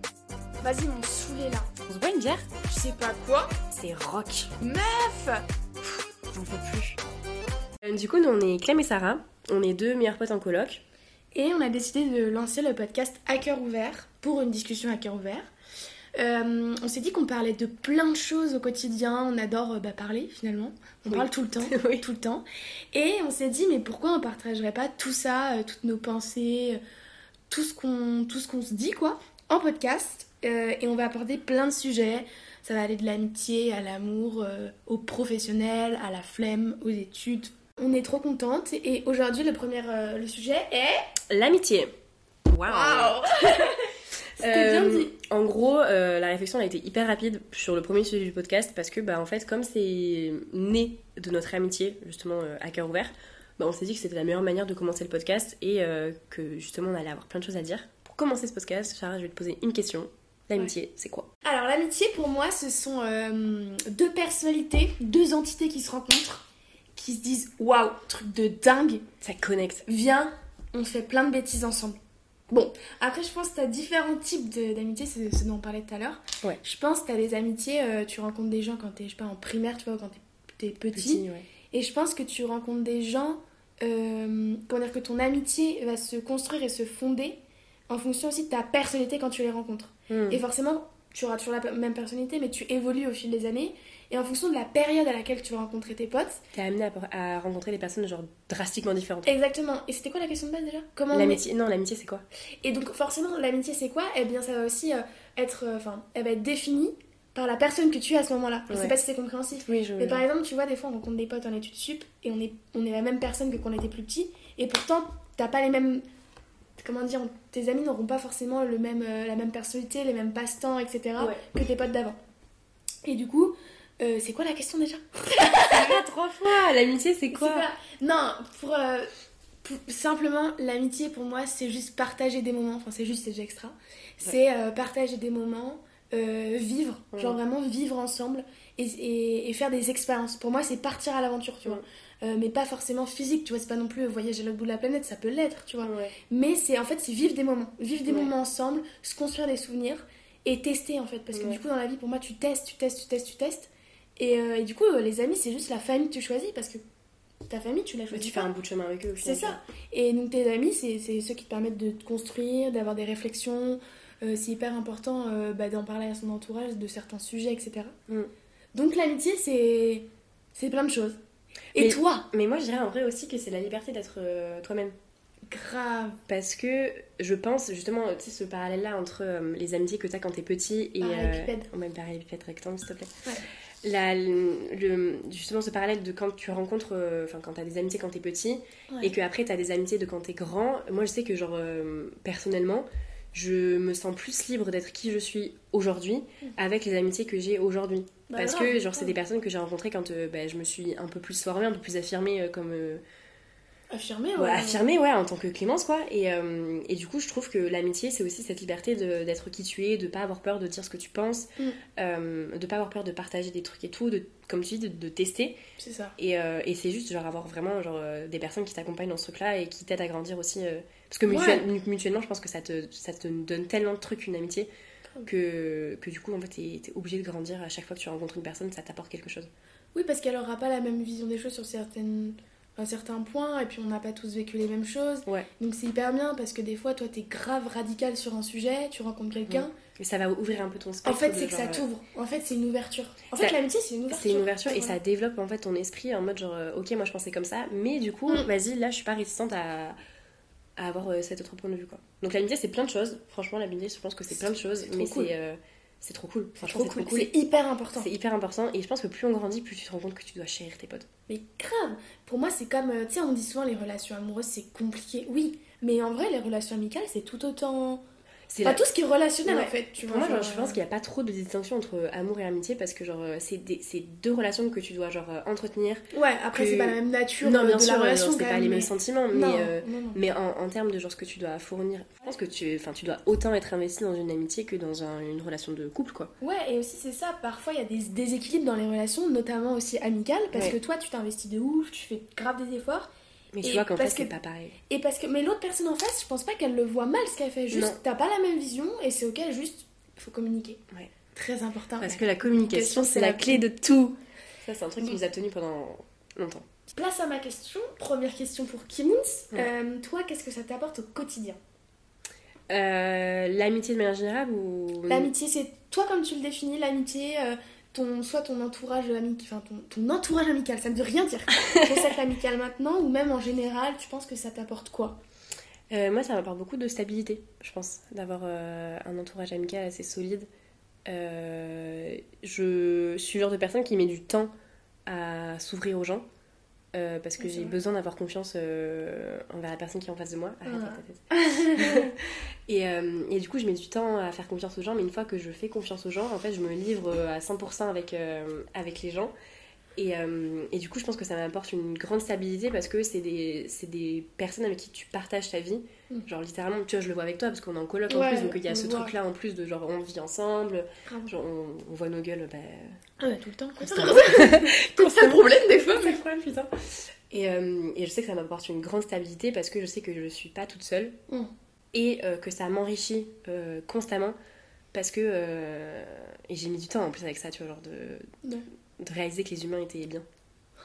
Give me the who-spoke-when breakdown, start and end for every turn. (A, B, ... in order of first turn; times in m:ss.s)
0:00.6-0:01.7 A
0:01.9-0:02.5 B
0:02.6-0:03.5 A
0:03.7-0:04.5 B
0:04.6-0:05.4 A
0:06.3-0:07.0 B
0:07.8-0:10.8 B
0:11.3-0:15.5 A
0:16.2-0:26.8 A
0:21.0-0:22.0 B
0:27.5-0:41.0 A
0:41.3-0:41.9 B
0:42.5-0:43.7 B
0:42.6-0:43.9 A
0:44.4-1:01.3 B
0:44.4-0:45.1 A
1:01.4-1:06.4 A
1:07.0-1:09.0 A
1:09.2-1:09.8 B
1:09.9-1:12.0 A
1:12.5-1:36.4 A
1:20.9-1:21.4 B
1:30.1-1:30.4 B
1:36.5-1:39.3 B
1:39.2-1:41.4 A
1:41.1-1:42.2 B
1:42.6-1:56.0 A
1:48.7-1:48.9 B
1:49.7-1:50.2 B
1:56.8-2:02.2 A
2:01.2-2:01.4 B
2:03.0-2:06.0 A
2:05.4-2:07.6 B
2:07.3-2:09.1 A
2:09.6-2:36.8 A
2:25.8-2:26.2 B
2:28.1-2:28.3 B
2:31.3-2:31.6 B
2:37.5-2:38.5 A
2:38.1-2:39.6 B
2:39.2-2:48.0 A
2:48.8-2:51.2 A
2:51.8-2:52.3 A
2:51.8-2:55.0 B
2:55.5-2:56.2 A
2:56.3-3:03.1 B
3:01.0-3:01.7 A
3:03.8-3:23.0 B
3:18.3-3:19.2 A
3:23.9-3:24.9 A
3:24.4-3:35.6 B
3:35.8-3:36.2 A
3:36.2-3:44.7 B
3:41.3-3:41.7 A
3:45.2-3:49.5 B
3:49.9-3:59.7 A
3:59.5-4:01.9 B
4:01.0-4:05.0 A
4:04.1-4:10.0 B
4:10.8-4:17.3 B
4:14.4-4:15.3 A
4:16.6-4:18.1 A
4:18.0-4:21.1 B
4:21.3-4:28.0 A
4:28.5-4:28.8 B
4:28.6-4:30.8 A
4:29.4-4:46.3 B
4:36.1-4:40.2 A
4:46.4-4:53.1 A
4:50.5-4:50.8 B
4:53.5-4:54.8 B
4:53.6-4:54.3 A
4:54.9-5:00.8 A
4:57.7-4:58.0 B
5:01.3-5:04.1 A
5:02.0-5:04.0 B
5:04.6-5:06.6 B
5:06.9-5:11.6 A
5:12.7-5:15.3 B
5:15.1-5:25.2 A
5:25.9-5:30.5 B
5:31.1-5:34.5 B
5:35.1-5:36.2 B
5:36.9-5:49.3 B
5:37.4-5:37.8 A
5:40.7-5:42.1 A
5:50.0-6:03.0 B
5:58.1-5:59.1 A
6:01.1-6:01.3 A
6:03.2-6:06.2 A
6:03.8-6:11.2 B
6:11.9-6:14.4 B
6:14.9-6:18.3 B
6:19.0-6:20.2 B